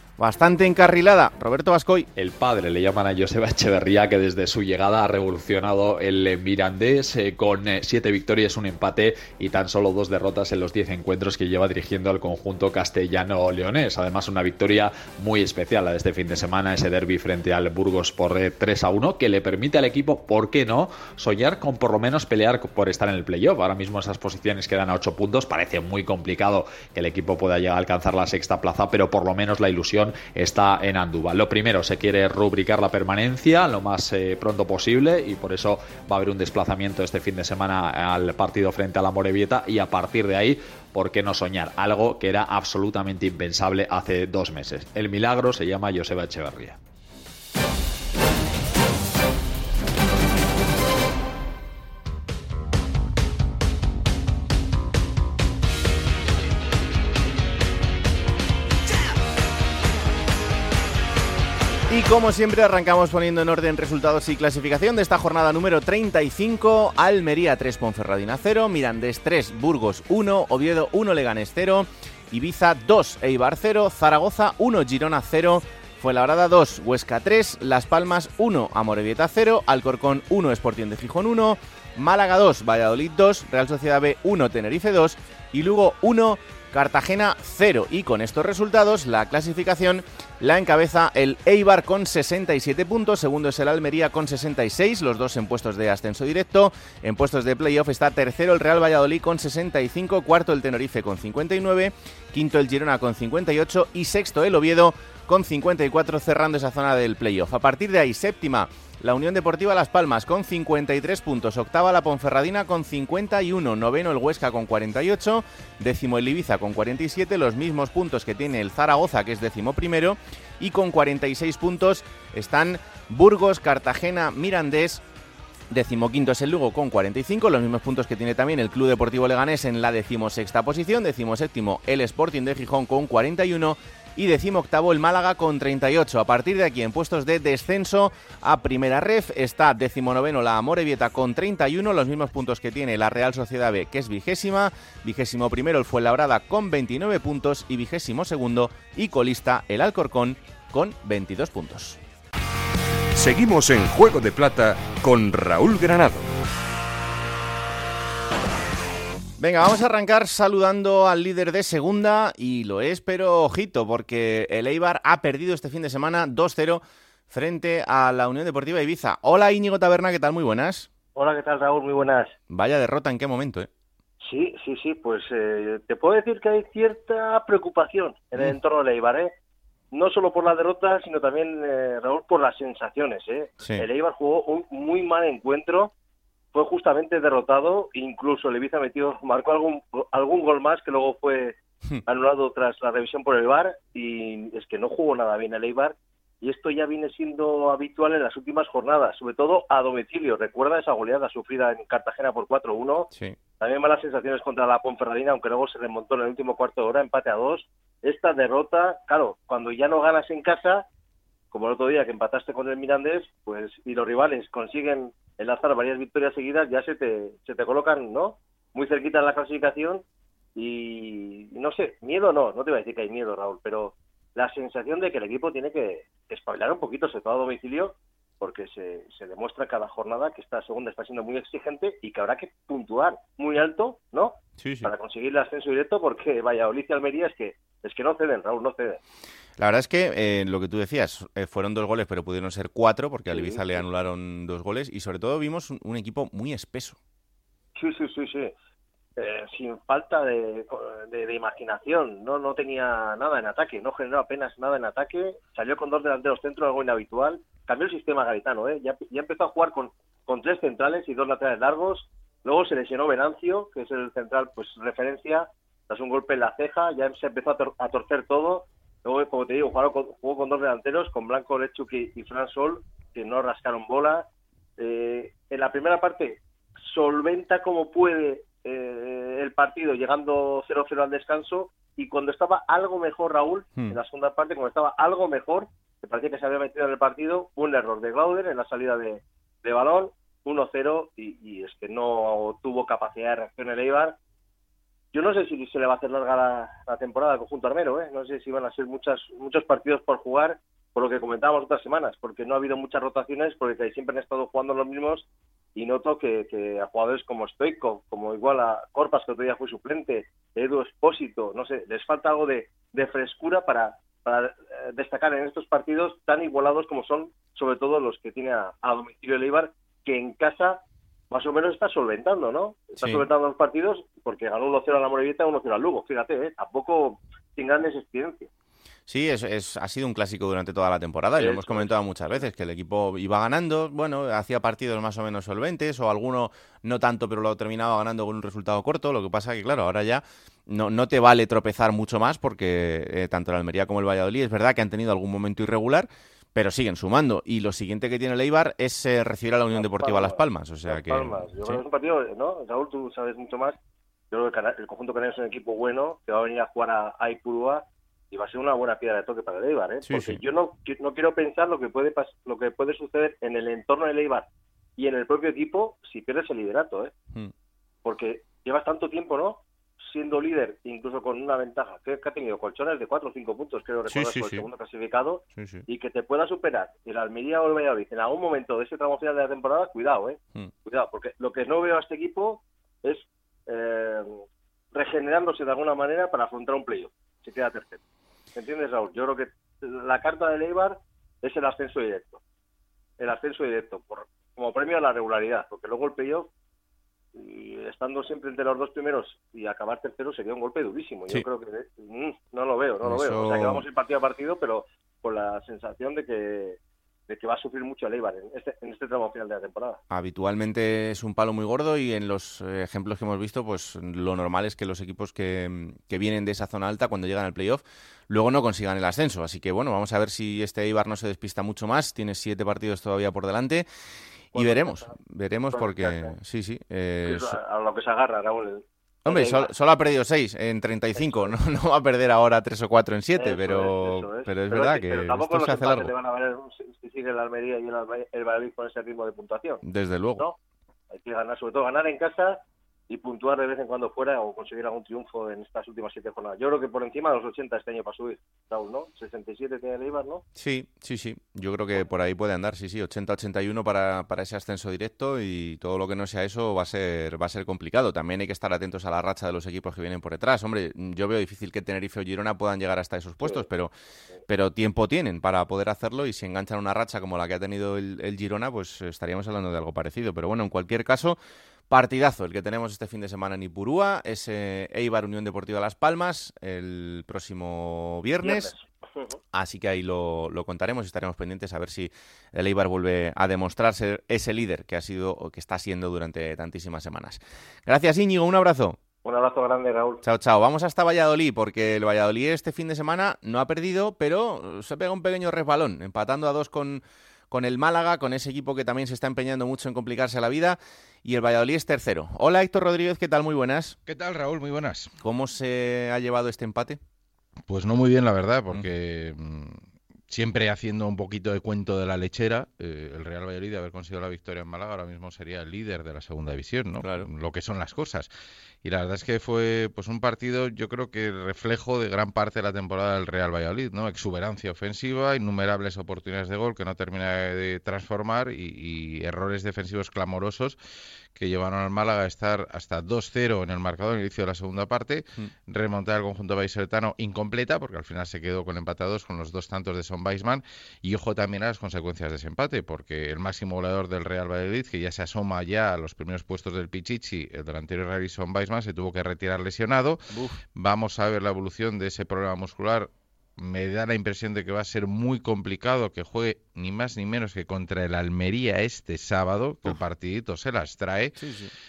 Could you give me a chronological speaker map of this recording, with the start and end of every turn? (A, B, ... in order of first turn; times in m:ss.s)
0:00.2-0:02.1 A
0:02.2-0:46.8 B
1:01.9-2:05.0 A
2:05.7-2:32.0 A
2:33.1-2:36.3 C
2:39.4-2:50.9 A
2:51.2-2:52.3 D
2:52.5-2:53.7 A
2:54.2-2:59.3 D
2:59.9-3:05.9 D
3:06.5-3:30.8 D
3:31.5-3:40.0 D
3:40.5-3:59.0 D
3:54.6-3:54.9 A
3:59.6-4:07.0 A
4:03.3-4:03.8 D
4:07.8-4:08.5 D
4:09.2-4:34.2 D
4:34.8-4:54.2 D
4:55.1-5:28.5 D
5:29.1-5:51.8 A
5:31.4-5:32.4 D
5:49.7-5:53.8 D
5:54.3-6:07.1 D
6:00.0-6:00.4 A
6:08.0-6:28.0 D
6:14.0-6:14.6 A
6:15.5-6:15.8 A
6:28.5-6:32.4 D
6:33.2-6:36.5 D
6:37.3-6:50.0 D
6:43.0-6:43.8 A
6:50.1-7:03.9 A
7:04.5-7:07.5 A
7:04.5-7:05.1 D
7:05.7-7:06.3 D
7:07.2-7:09.7 D
7:09.2-7:16.1 A
7:11.2-7:11.5 D
7:13.4-7:19.8 D
7:19.8-7:20.4 A
7:21.1-7:30.4 D
7:30.6-7:43.9 A
7:44.5-7:51.4 A
7:51.9-7:58.7 A
7:58.4-7:59.4 D
7:59.5-8:09.0 A
8:09.2-8:10.2 D
8:10.2-8:24.0 A
8:24.0-8:25.1 E
8:25.2-8:27.0 A
8:27.7-8:38.3 E
8:37.0-8:37.3 A
8:38.8-8:50.8 E
8:51.3-9:21.4 E
9:10.3-9:10.6 A
9:21.4-9:21.7 A